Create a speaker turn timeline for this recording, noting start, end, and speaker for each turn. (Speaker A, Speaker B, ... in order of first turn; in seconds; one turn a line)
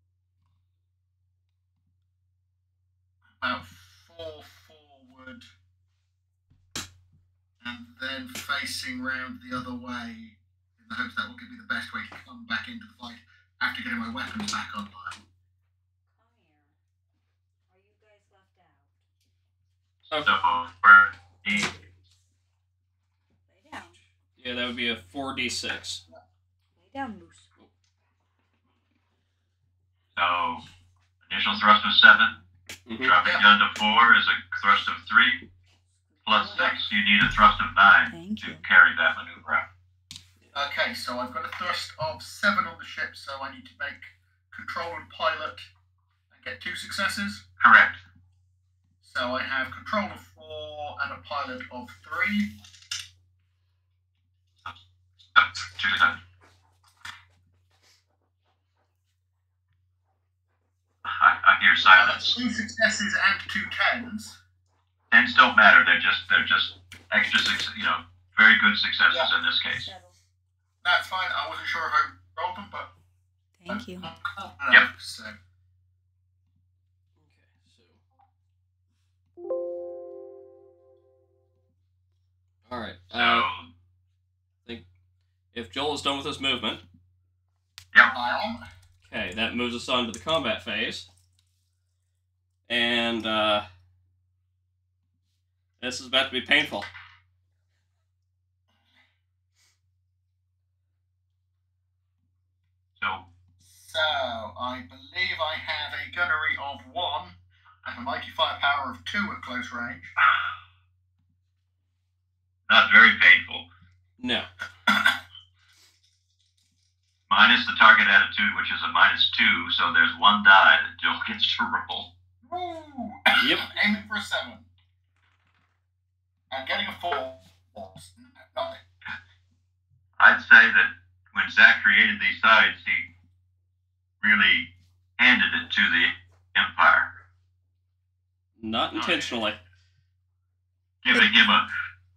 Speaker A: 3.4-5.5
Speaker A: 7.6-15.2
Speaker B: 16.1-16.7
Speaker B: 17.7-18.9
Speaker C: 20.1-21.8
Speaker B: 23.5-24.0
Speaker D: 24.4-26.0
Speaker B: 26.8-27.5
Speaker C: 30.1-30.6
Speaker C: 31.3-32.4
Speaker D: 32.9-33.1
Speaker C: 33.0-35.4
Speaker A: 33.2-33.5
Speaker C: 36.2-39.7
Speaker A: 36.5-36.8
Speaker B: 38.1-38.6
Speaker A: 40.5-45.7
Speaker A: 46.3-47.4
Speaker C: 47.6-48.0
Speaker A: 49.0-52.6
Speaker C: 55.4-56.2
Speaker C: 61.0-62.4
Speaker A: 61.9-64.4
Speaker C: 65.1-69.9
Speaker B: 69.8-70.2
Speaker A: 70.8-72.9
Speaker B: 73.6-74.0
Speaker A: 73.7-75.4
Speaker D: 77.2-78.0
Speaker D: 82.7-83.5
Speaker C: 83.1-83.7
Speaker D: 85.5-86.8
Speaker A: 88.0-88.7
Speaker D: 89.0-91.1
Speaker D: 92.7-93.7
Speaker D: 95.8-96.9
Speaker C: 103.0-103.3
Speaker A: 103.6-110.1
Speaker C: 112.7-113.7
Speaker D: 114.2-114.5
Speaker C: 117.3-122.1
Speaker A: 122.4-124.7
Speaker D: 123.4-123.7
Speaker A: 126.5-128.8
Speaker C: 130.2-133.1
Speaker C: 134.2-137.2
Speaker D: 138.6-139.6
Speaker C: 138.9-139.3
Speaker C: 141.0-141.7